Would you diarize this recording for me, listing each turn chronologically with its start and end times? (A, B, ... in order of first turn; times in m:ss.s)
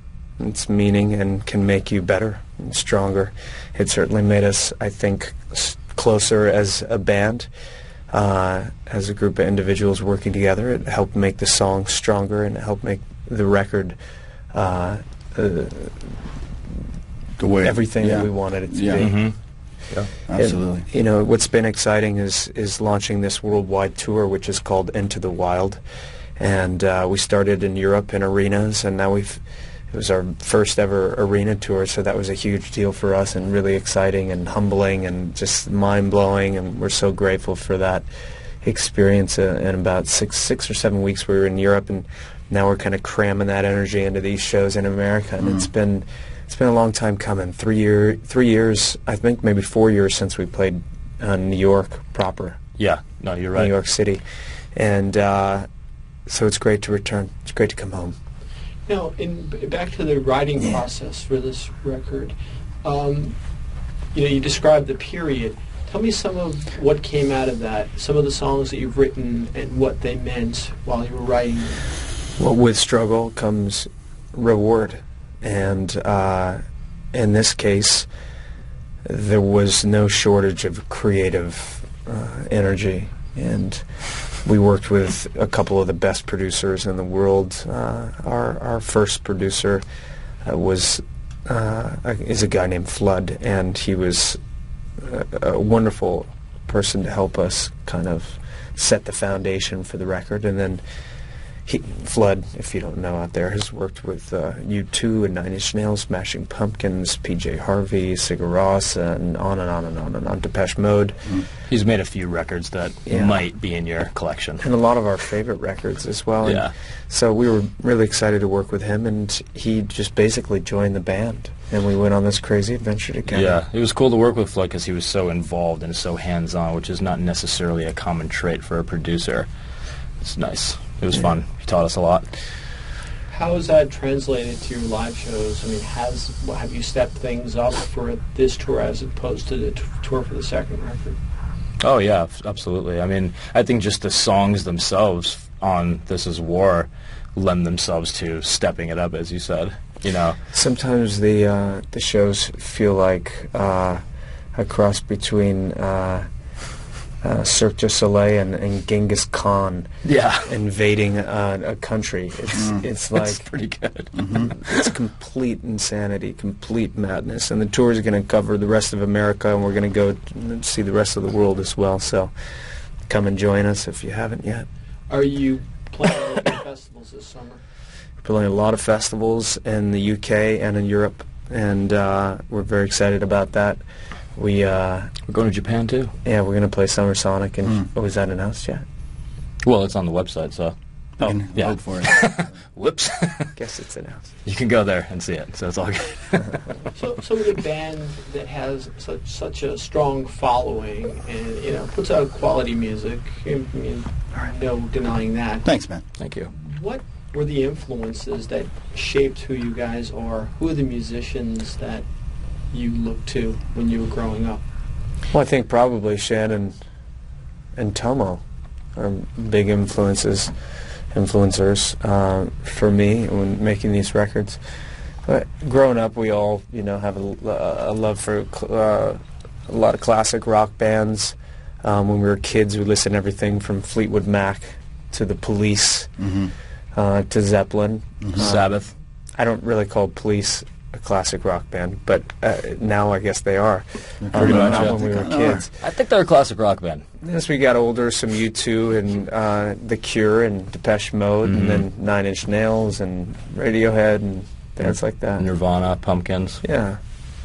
0:00.4-0:07.5 A
0:08.1-0:14.0 A
0:14.5-0:16.2 A
0:17.4-0:19.0 B
0:17.6-0:19.3 A
0:19.0-0:19.4 C
0:20.2-0:20.8 B
0:20.3-0:25.8 A
0:26.4-0:38.0 A
0:38.6-0:52.6 A
0:52.8-0:53.7 C
0:53.5-0:54.2 A
0:54.7-0:55.6 A
0:56.3-0:58.2 A
0:58.9-1:03.4 D
1:04.1-1:11.8 D
1:12.4-1:16.6 A
1:17.1-1:18.1 A
1:19.0-1:23.8 A
1:24.4-1:29.8 A
1:30.4-1:34.4 A
1:35.0-1:40.8 A
1:41.6-1:51.3 A
1:51.7-1:54.6 C
1:53.1-1:53.4 A
1:54.6-2:03.6 A
1:56.4-1:56.7 C
2:03.3-2:09.5 C
2:10.2-2:12.3 C
2:13.3-2:21.2 D
2:21.8-2:30.4 C
2:30.5-2:34.0 A
2:34.5-2:36.3 A
2:37.2-2:39.9 A
2:40.0-2:40.5 C
2:40.4-2:43.4 A
2:42.6-2:42.8 B
2:43.1-2:44.9 C
2:44.2-2:44.5 B
2:44.3-2:52.3 A
2:53.1-2:54.6 A
2:55.1-2:57.6 D
2:58.2-3:03.8 A
3:04.4-3:05.1 A
3:05.3-3:06.1 C
3:06.2-3:08.8 A
3:09.6-3:13.5 C
3:11.2-3:12.5 B
3:13.6-3:14.3 A
3:14.4-3:16.7 C
3:17.0-3:25.7 D
3:25.6-3:26.0 B
3:26.2-3:26.5 C
3:26.5-3:32.0 D
3:32.7-3:34.6 D
3:35.3-3:36.8 A
3:37.8-3:38.4 A
3:39.0-3:40.5 A
3:41.1-3:44.6 A
3:45.2-3:56.1 A
3:56.2-3:56.5 B
3:56.9-3:58.8 A
3:58.2-3:58.5 B
3:58.4-3:58.9 C
3:59.4-4:05.8 A
4:04.2-4:05.6 B
4:04.3-4:05.1 C
4:05.8-4:07.0 C
4:07.2-4:15.4 A
4:11.4-4:11.8 C
4:14.8-4:16.6 C
4:16.6-4:17.0 A